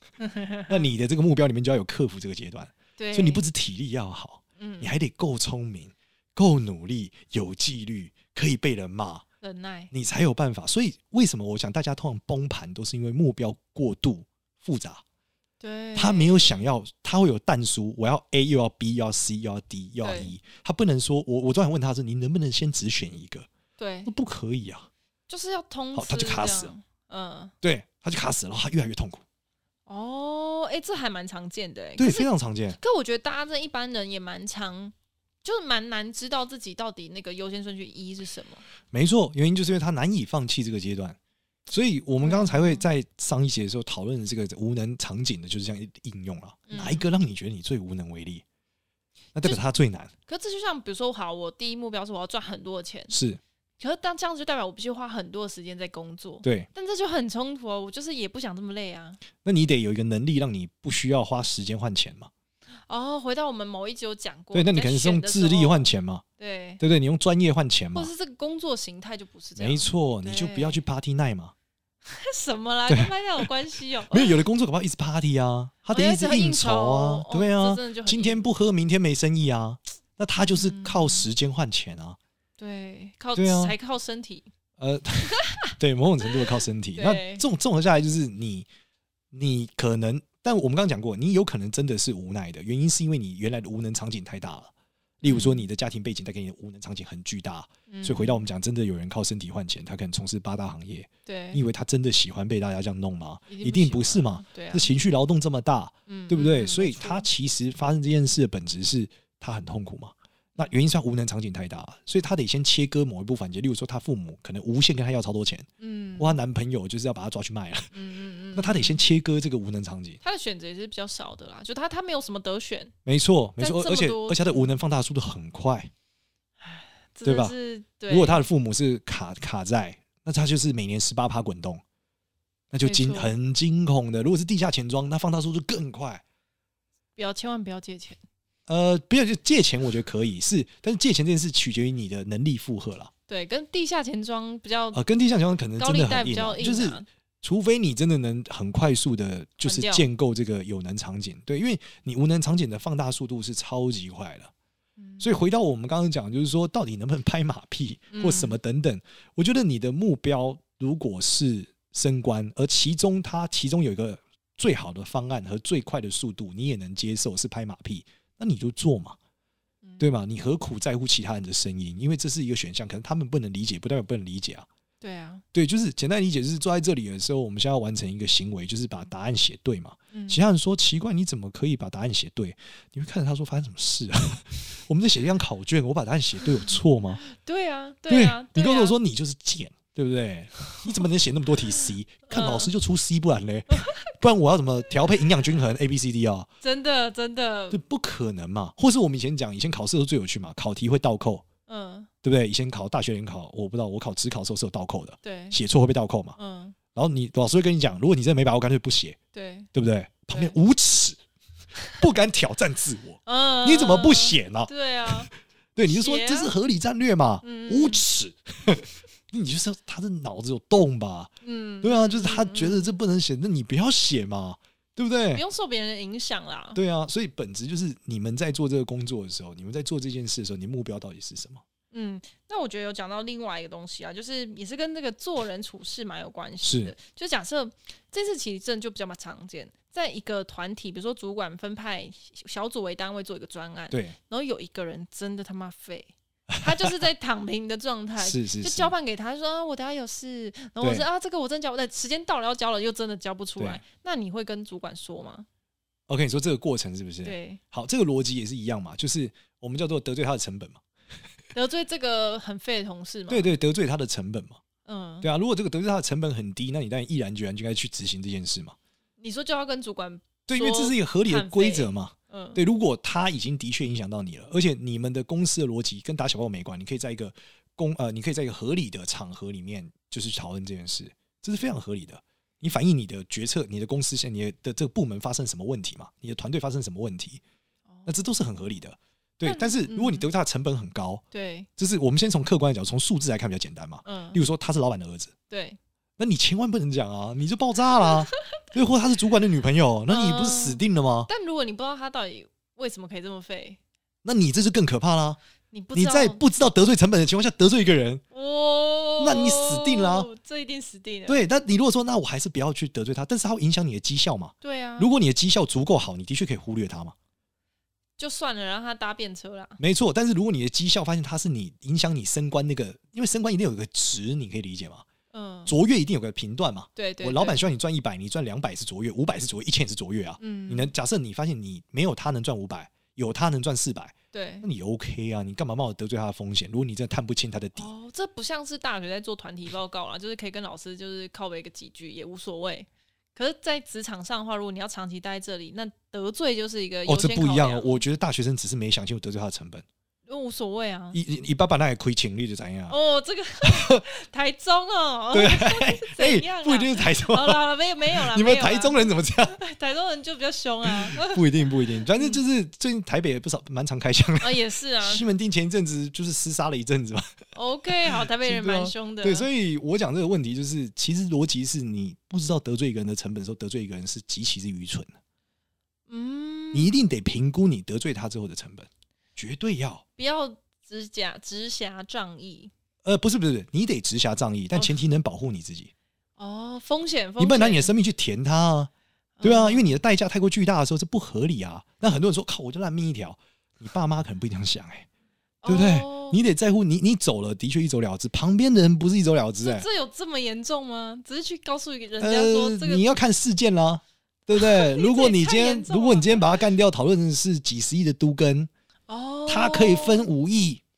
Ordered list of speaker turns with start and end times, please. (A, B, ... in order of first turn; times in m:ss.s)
0:00.2-0:00.8 A
0:00.7-0:09.2 B
0:03.0-0:03.4 A
0:04.6-0:04.9 A
0:09.4-0:09.9 A
0:09.9-0:15.0 B
0:15.6-0:16.6 A
0:16.0-0:23.5 B
0:20.0-0:20.3 A
0:23.8-0:24.1 A
0:24.1-0:24.9 B
0:25.3-0:27.5 A
0:26.0-0:26.7 B
0:27.6-0:29.2 B
0:29.9-0:38.6 A
0:32.0-0:32.8 B
0:38.9-0:48.4 B
0:42.2-0:42.9 A
0:46.7-0:47.1 A
0:49.3-0:50.1 B
0:50.3-0:53.1 A
0:53.1-0:53.4 B
0:53.8-0:59.2 A
0:56.4-0:56.7 B
0:59.4-1:02.3 B
1:02.9-1:06.8 A
1:04.5-1:06.2 B
1:06.8-1:08.1 B
1:07.9-1:10.8 A
1:09.6-1:11.5 B
1:12.1-1:14.4 A
1:12.9-1:13.5 B
1:14.1-1:22.2 B
1:15.9-1:18.5 A
1:20.4-1:21.3 A
1:22.6-1:24.5 A
1:23.4-1:23.8 B
1:24.8-1:28.7 B
1:25.3-1:25.8 A
1:27.0-1:27.4 A
1:29.3-1:34.7 B
1:35.2-1:57.9 B
1:35.2-1:35.7 A
1:37.9-1:38.4 A
1:41.3-1:41.6 A
1:43.5-1:44.9 A
1:46.1-1:47.3 A
1:55.8-1:56.4 A
1:57.9-1:59.0 A
1:58.5-2:00.2 B
2:00.2-2:02.9 A
2:03.1-2:05.9 B
2:03.6-2:04.7 A
2:06.6-2:08.4 A
2:07.2-2:07.6 B
2:08.1-2:11.8 B
2:12.7-2:16.2 B
2:12.8-2:13.3 A
2:17.2-2:18.2 A
2:18.7-2:23.1 B
2:23.3-2:25.0 A
2:24.9-2:34.5 B
2:25.8-2:27.1 A
2:29.6-2:30.1 A
2:35.0-2:35.4 A
2:35.2-2:49.2 B
2:38.1-2:38.6 A
2:49.8-2:50.1 A
2:50.0-2:54.7 B
2:55.0-2:55.4 A
2:55.5-3:07.2 B
3:00.1-3:00.4 A
3:07.2-3:09.0 A
3:08.1-3:16.5 B
3:11.8-3:12.7 A
3:13.7-3:14.1 A
3:16.6-3:17.8 A
3:17.7-3:21.4 B
3:21.7-3:22.1 A
3:22.2-3:26.4 B
3:25.2-3:25.6 A
3:26.4-3:26.8 A
3:26.9-3:29.2 B
3:29.3-3:29.7 A
3:29.7-3:31.2 B
3:32.0-3:41.3 B
3:33.3-3:35.3 A
3:35.9-3:36.5 A
3:37.4-3:38.0 A
3:41.4-3:42.9 A
3:41.8-3:45.4 B
3:45.3-3:46.8 A
3:46.8-3:51.6 B
3:51.9-4:15.5 A
3:56.6-3:57.0 B
4:03.9-4:04.2 B
4:06.5-4:06.9 B
4:08.2-4:08.9 B
4:10.8-4:11.1 B
4:16.1-4:20.8 B
4:17.2-4:17.6 A
4:21.6-4:23.5 A
4:23.3-4:24.6 B
4:24.8-4:25.3 A
4:25.2-4:28.8 B
4:29.2-4:32.6 A
4:30.5-4:47.4 B
4:47.9-4:48.2 A
4:48.1-4:51.2 B
4:49.4-4:50.3 A
4:51.3-4:51.7 A
4:51.8-4:55.3 B
4:54.0-4:54.4 A
4:55.5-4:55.8 A
4:56.2-5:01.3 B
5:00.1-5:03.8 A
5:04.2-5:05.4 B
5:05.7-5:06.4 A
5:05.9-5:08.2 B
5:08.3-5:11.4 A
5:09.2-5:10.3 B
5:11.3-5:17.2 B
5:14.6-5:15.1 A
5:18.2-5:19.8 A
5:19.8-5:25.0 B
5:25.3-5:25.7 A
5:25.7-5:37.9 B
5:27.0-5:27.6 A
5:30.4-5:30.9 A
5:34.3-5:34.7 A
5:37.8-5:48.0 A
5:47.1-5:49.9 B
5:50.3-5:51.2 A
5:51.1-5:53.0 B
5:52.9-6:01.4 A
5:53.6-5:54.0 B
5:55.3-5:59.6 B
6:00.8-6:07.4 B
6:02.1-6:02.4 A
6:04.4-6:05.3 A
6:07.5-6:09.5 A
6:08.0-6:15.2 B
6:16.1-6:16.9 A
6:16.7-6:20.0 B
6:20.2-6:22.7 A
6:23.0-6:25.9 B
6:24.7-6:25.0 A
6:26.4-6:27.9 A
6:27.4-6:28.9 B
6:29.4-6:29.9 A
6:29.4-6:35.1 B
6:35.6-6:36.4 A
6:35.7-6:39.9 B
6:39.6-6:43.1 A
6:42.2-6:48.7 B
6:44.5-6:46.5 A
6:49.1-6:50.3 A
6:49.5-6:50.8 B